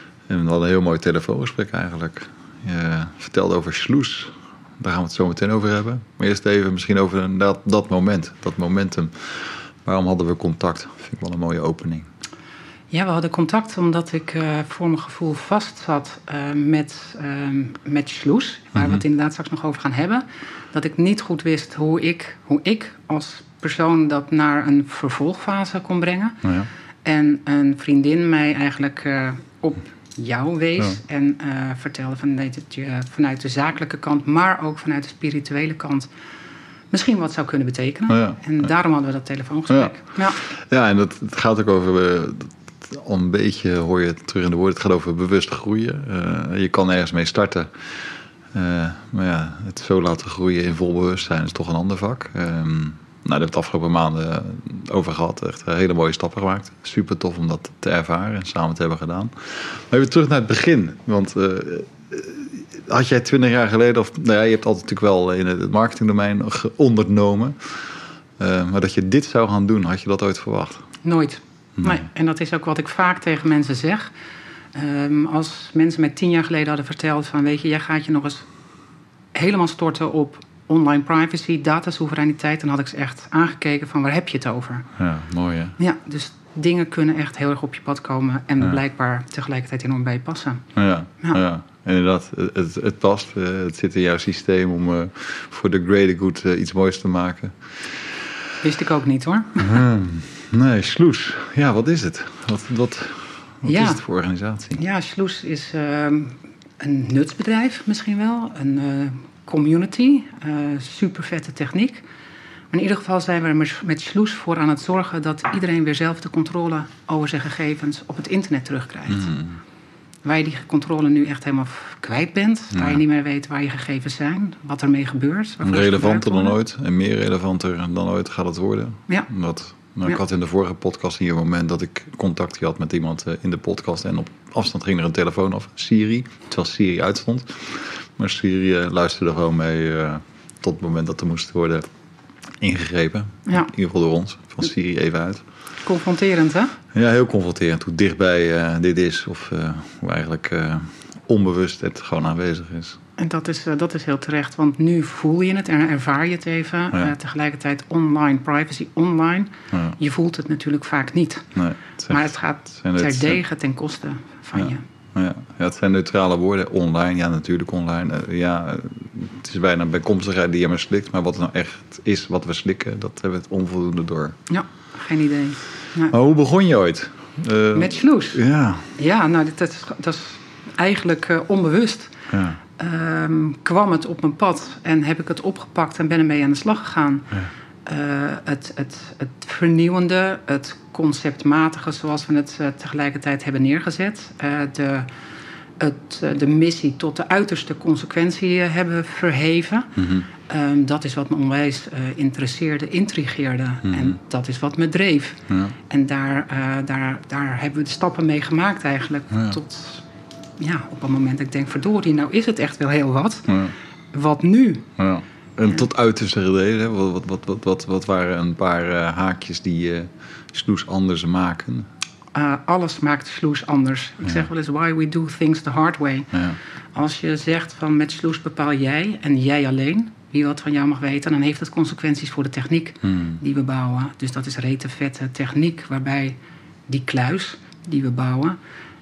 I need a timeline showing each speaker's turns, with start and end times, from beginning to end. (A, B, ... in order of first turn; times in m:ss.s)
0:00.3-0:12.1 A
0:12.9-0:26.4 B
0:27.0-0:36.1 B
0:36.9-0:40.4 B
0:38.1-0:38.6 A
0:39.7-1:10.9 A
1:11.0-1:14.1 B
1:11.8-1:12.0 A
1:14.7-1:18.4 B
1:19.3-1:24.9 B
1:25.0-1:25.8 A
1:25.8-1:30.6 B
1:30.8-1:38.2 A
1:38.6-1:39.8 B
1:39.6-1:44.8 A
1:43.6-1:44.0 B
1:44.8-1:52.0 B
1:52.7-1:59.3 B
1:59.1-1:59.6 A
2:00.2-2:06.6 B
2:02.7-2:03.0 A
2:05.6-2:21.9 A
2:22.6-2:25.4 A
2:25.8-2:26.8 B
2:26.9-2:33.0 A
2:33.2-2:41.5 B
2:41.5-2:43.4 A
2:42.1-2:44.8 B
2:44.5-2:54.4 A
2:54.5-2:56.1 B
2:56.1-2:59.0 A
2:57.7-2:58.4 B
2:59.0-3:02.1 B
3:02.3-3:02.6 A
3:02.8-3:15.1 B
3:15.8-3:30.0 B
3:20.0-3:20.3 A
3:25.5-3:25.7 A
3:30.6-3:34.9 B
3:33.5-3:33.7 A
3:35.0-3:41.9 A
3:42.3-3:46.4 B
3:46.3-3:46.6 A
3:46.9-3:56.4 B
3:53.1-3:53.4 A
3:56.9-3:58.6 B